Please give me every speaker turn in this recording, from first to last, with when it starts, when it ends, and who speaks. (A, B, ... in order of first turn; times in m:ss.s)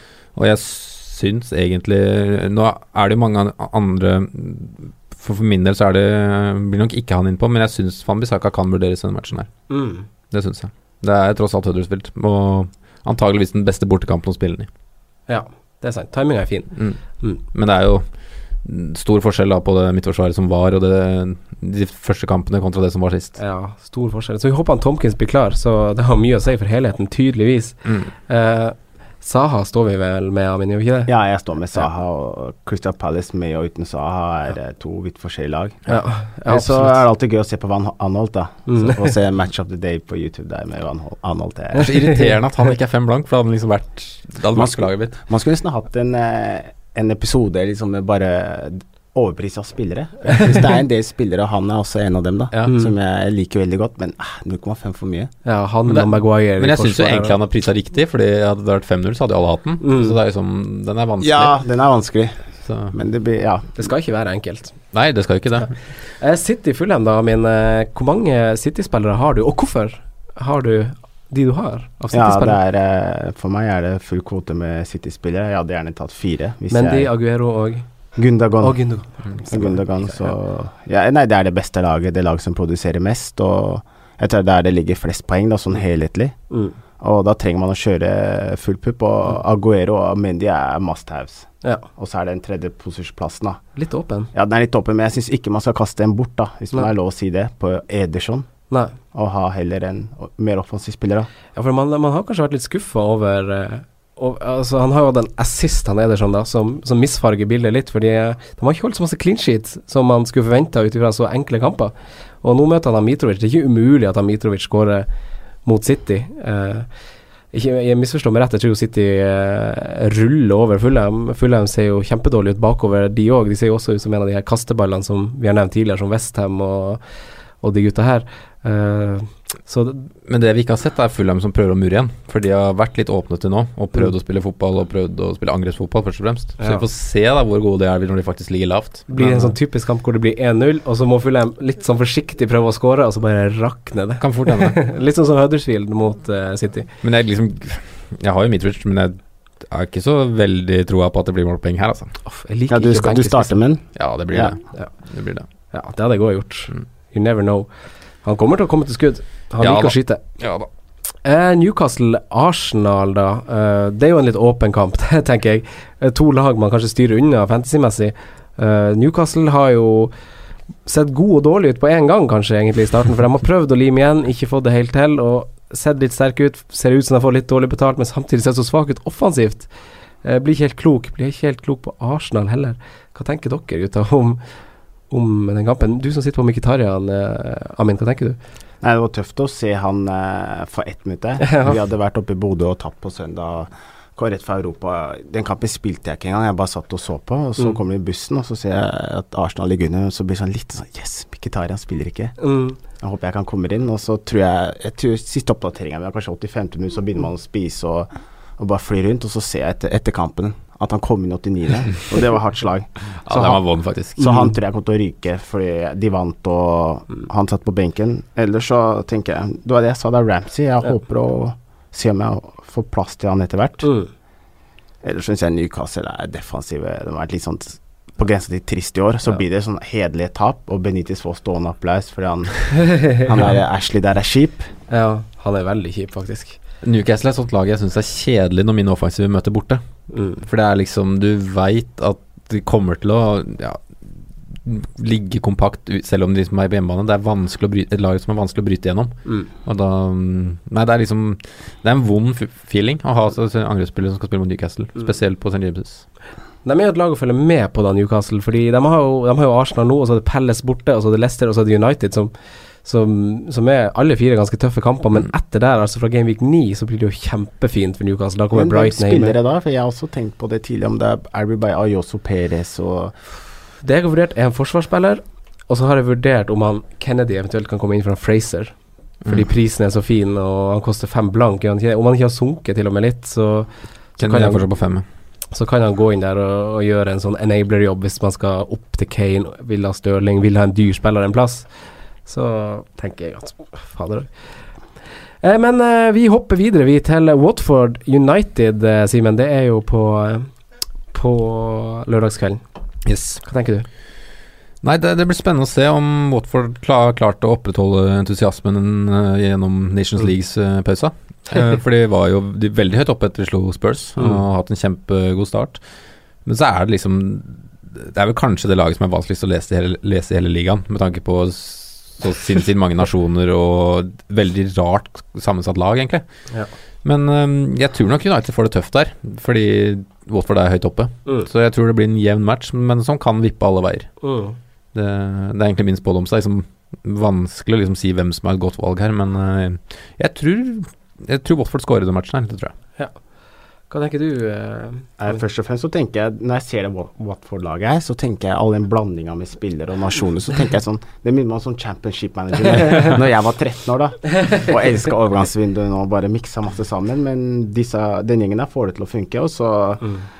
0:00.3-0:09.5 A
0:09.7-0:10.1 B
0:10.3-0:14.7 A
0:15.3-0:17.4 B
0:16.8-0:23.4 A
0:23.4-0:31.1 B
0:27.8-0:28.1 A
0:31.1-0:41.9 C
0:35.9-0:37.0 B
0:38.7-0:39.1 B
0:41.8-0:45.2 A
0:41.8-0:42.2 B
0:44.6-0:55.3 C
0:52.7-0:52.9 B
0:55.4-0:57.4 B
0:55.9-1:01.6 A
0:59.8-1:00.2 B
1:01.2-1:02.4 C
1:02.6-1:03.0 A
1:02.9-1:03.7 C
1:03.8-1:04.8 B
1:04.9-1:05.8 A
1:05.9-1:12.6 B
1:12.1-1:17.1 C
1:16.7-1:17.9 B
1:18.2-1:18.8 C
1:18.6-1:20.3 B
1:19.5-1:26.3 C
1:26.5-1:26.8 B
1:27.0-1:33.6 C
1:33.8-1:34.3 B
1:34.3-1:38.5 C
1:38.7-1:39.0 B
1:39.1-1:41.3 C
1:41.6-1:55.1 B
1:55.6-1:56.9 B
1:57.5-2:07.0 B
2:07.6-2:10.1 B
2:10.3-2:19.6 A
2:16.6-2:16.8 B
2:19.1-2:26.9 B
2:24.2-2:24.8 A
2:27.0-2:32.1 A
2:32.2-2:33.6 B
2:32.7-2:34.6 C
2:34.0-2:35.5 A
2:35.6-2:37.7 B
2:38.2-2:40.2 B
2:39.6-2:40.7 A
2:41.2-2:50.1 B
2:50.8-2:59.7 B
3:00.2-3:04.4 B
3:05.1-3:08.4 B
3:08.8-3:22.4 C
3:11.4-3:11.8 B
3:22.4-3:22.8 B
3:23.0-3:33.6 C
3:33.2-3:34.2 A
3:33.3-3:33.6 B
3:34.2-3:34.5 B
3:34.2-3:43.9 C
3:43.8-3:44.1 B
3:45.0-3:54.7 C
3:52.8-3:53.2 B
3:54.9-3:56.6 B
3:56.8-3:59.8 A
4:00.1-4:00.4 B
4:00.4-4:16.1 A
4:16.6-4:22.3 B
4:22.8-4:29.4 B
4:28.5-4:33.2 C
4:33.8-4:44.7 B
4:44.2-4:45.0 A
4:45.5-4:51.7 B
4:52.3-4:54.3 B
4:55.4-5:00.5 B
5:01.1-5:02.6 B
5:03.1-5:03.4 A
5:03.4-5:03.9 B
5:04.8-5:15.8 A
5:16.4-5:26.5 A
5:27.0-5:34.3 A
5:34.2-5:34.6 B
5:34.9-5:42.7 A
5:43.9-5:45.1 B
5:45.2-6:00.1 C